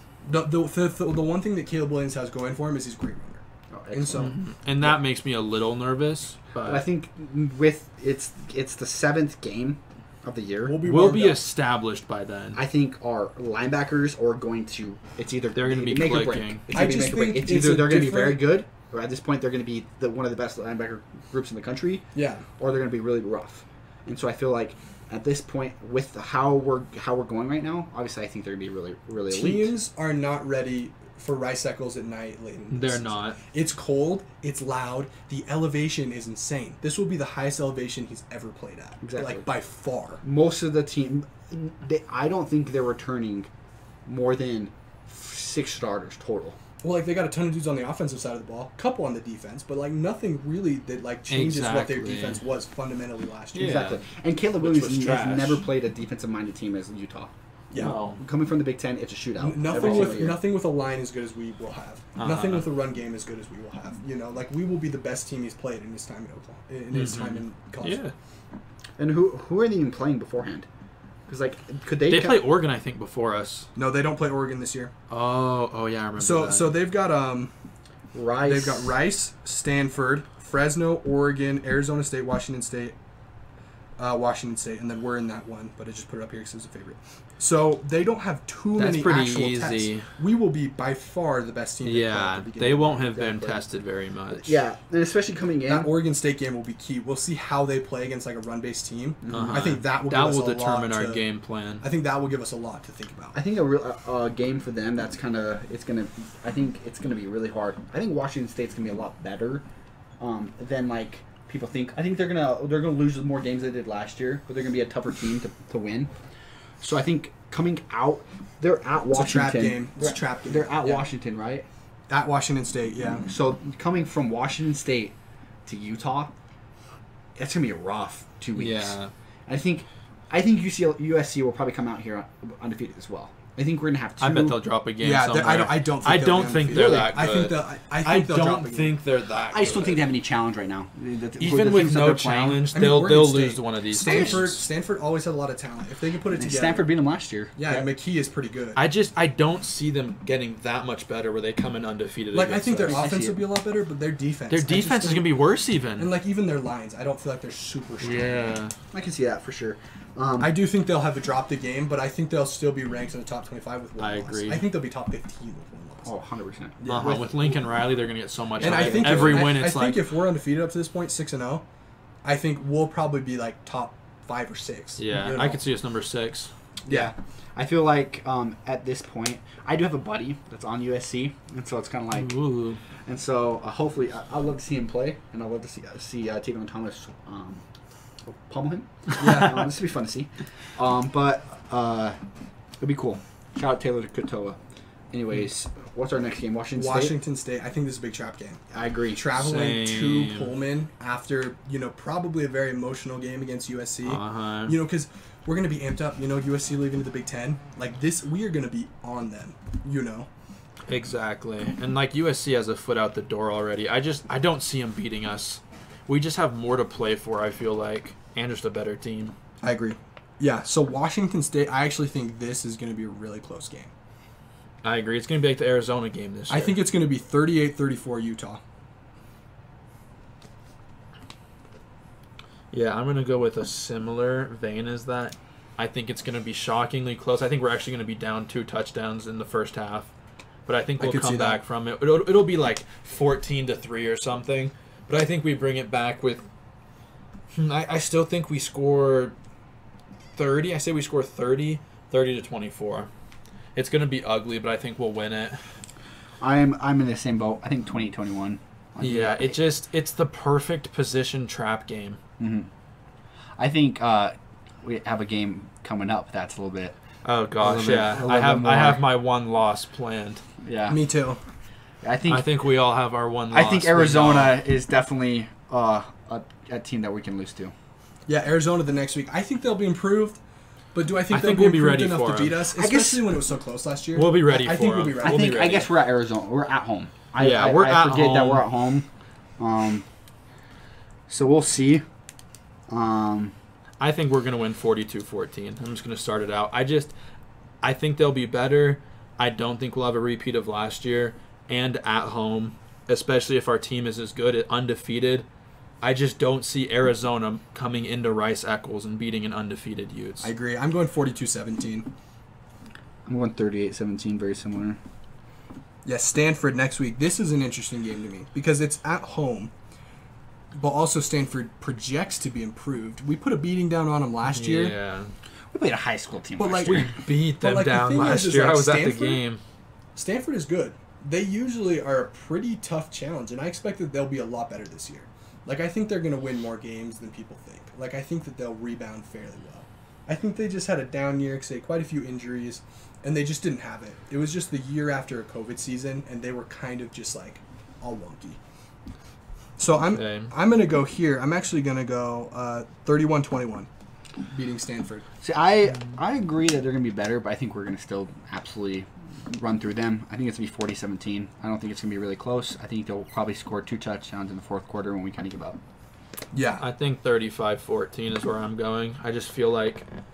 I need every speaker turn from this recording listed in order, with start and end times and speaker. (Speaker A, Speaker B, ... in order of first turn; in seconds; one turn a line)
Speaker A: 0.2-4.9
Speaker B: 3.7-4.3
Speaker C: 4.1-6.8
Speaker B: 6.6-10.8
Speaker A: 10.6-11.5
Speaker C: 10.8-12.6
Speaker B: 12.5-22.1
Speaker C: 15.5-16.6
Speaker A: 16.7-18.5
Speaker A: 22.1-22.4
Speaker B: 22.6-29.7
Speaker A: 29.3-40.2
Speaker C: 32.7-33.4
Speaker B: 39.0-39.5
Speaker B: 40.2-43.5
Speaker B: 44.0-46.6
Speaker A: 46.8-53.8
Speaker C: 51.3-52.4
Speaker C: 53.5-54.0
Speaker B: 53.5-60.4
Speaker C: 54.6-55.6
Speaker A: 57.7-58.0
Speaker C: 57.8-58.2
Speaker A: 59.4-68.0
Speaker C: 59.7-60.2
Speaker C: 62.2-62.6
Speaker C: 66.9-68.1
Speaker B: 69.0-70.7
Speaker B: 71.3-72.5
Speaker C: 72.1-73.7
Speaker A: 73.8-74.9
Speaker C: 75.1-76.8
Speaker A: 76.2-77.5
Speaker B: 78.1-79.0
Speaker A: 78.4-82.9
Speaker A: 84.0-93.1
Speaker C: 88.8-90.1
Speaker C: 91.8-94.6
Speaker B: 93.1-93.6
Speaker B: 94.3-95.9
Speaker A: 95.7-101.2
Speaker B: 99.2-99.7
Speaker C: 99.3-101.8
Speaker A: 101.8-103.4
Speaker B: 103.3-109.6
Speaker B: 110.2-116.1
Speaker B: 116.8-121.7
Speaker A: 119.1-121.0
Speaker A: 122.1-123.2
Speaker B: 123.2-125.1
Speaker B: 125.7-126.3
Speaker B: 127.3-134.6
Speaker C: 128.5-129.1
Speaker C: 134.2-140.0
Speaker A: 135.0-139.0
Speaker B: 136.7-137.2
Speaker B: 139.5-142.6
Speaker C: 141.4-144.6
Speaker A: 142.7-146.9
Speaker B: 144.0-144.5
Speaker B: 146.3-147.9
Speaker A: 147.6-148.8
Speaker C: 148.8-153.0
Speaker A: 152.3-155.3
Speaker B: 152.8-153.4
Speaker C: 154.5-156.1
Speaker A: 156.0-158.6
Speaker C: 158.0-158.7
Speaker B: 158.9-160.6
Speaker A: 160.4-166.1
Speaker C: 164.0-164.6
Speaker B: 166.0-167.6
Speaker A: 166.8-167.3
Speaker C: 166.8-170.0
Speaker A: 168.6-171.6
Speaker B: 168.6-169.5
Speaker A: 172.2-175.6
Speaker C: 175.0-176.5
Speaker B: 176.8-182.4
Speaker C: 182.1-182.8
Speaker B: 183.0-187.6
Speaker B: 188.2-192.2
Speaker A: 189.2-189.7
Speaker B: 192.8-194.6
Speaker B: 195.1-197.2
Speaker A: 196.7-198.6
Speaker B: 198.7-199.3
Speaker A: 199.1-210.3
Speaker C: 199.3-200.5
Speaker C: 204.0-204.7
Speaker C: 210.9-219.3
Speaker A: 219.6-223.9
Speaker C: 224.8-226.8
Speaker A: 226.5-228.6
Speaker C: 232.7-240.1
Speaker C: 240.7-246.5
Speaker A: 241.0-241.6
Speaker C: 247.5-249.3
Speaker C: 250.3-253.1
Speaker C: 253.7-255.7
Speaker B: 256.4-259.6
Speaker C: 259.0-262.2
Speaker B: 262.4-262.7
Speaker B: 263.6-266.9
Speaker C: 267.2-270.4
Speaker B: 267.6-269.1
Speaker A: 267.8-268.3
Speaker B: 270.6-271.0
Speaker A: 270.9-271.4
Speaker B: 272.0-272.5
Speaker C: 272.3-274.6
Speaker B: 273.5-277.7
Speaker A: 278.3-280.4
Speaker A: 280.9-285.5
Speaker C: 281.3-282.6
Speaker B: 282.8-283.2
Speaker C: 284.1-285.9
Speaker B: 285.2-290.1
Speaker C: 287.4-288.6
Speaker B: 291.3-292.0
Speaker B: 292.9-293.5
Speaker C: 294.0-297.1
Speaker C: 297.8-305.4
Speaker C: 306.0-310.5
Speaker A: 310.4-312.1
Speaker B: 313.2-315.0
Speaker A: 316.0-319.7
Speaker A: 320.7-324.9
Speaker C: 324.5-325.3
Speaker B: 325.7-327.0
Speaker A: 326.6-329.4
Speaker C: 326.8-329.6
Speaker A: 330.1-348.6
Speaker A: 349.8-353.9
Speaker C: 350.1-350.5
Speaker A: 354.5-355.2
Speaker B: 355.4-365.8
Speaker A: 366.5-366.8
Speaker C: 366.8-370.1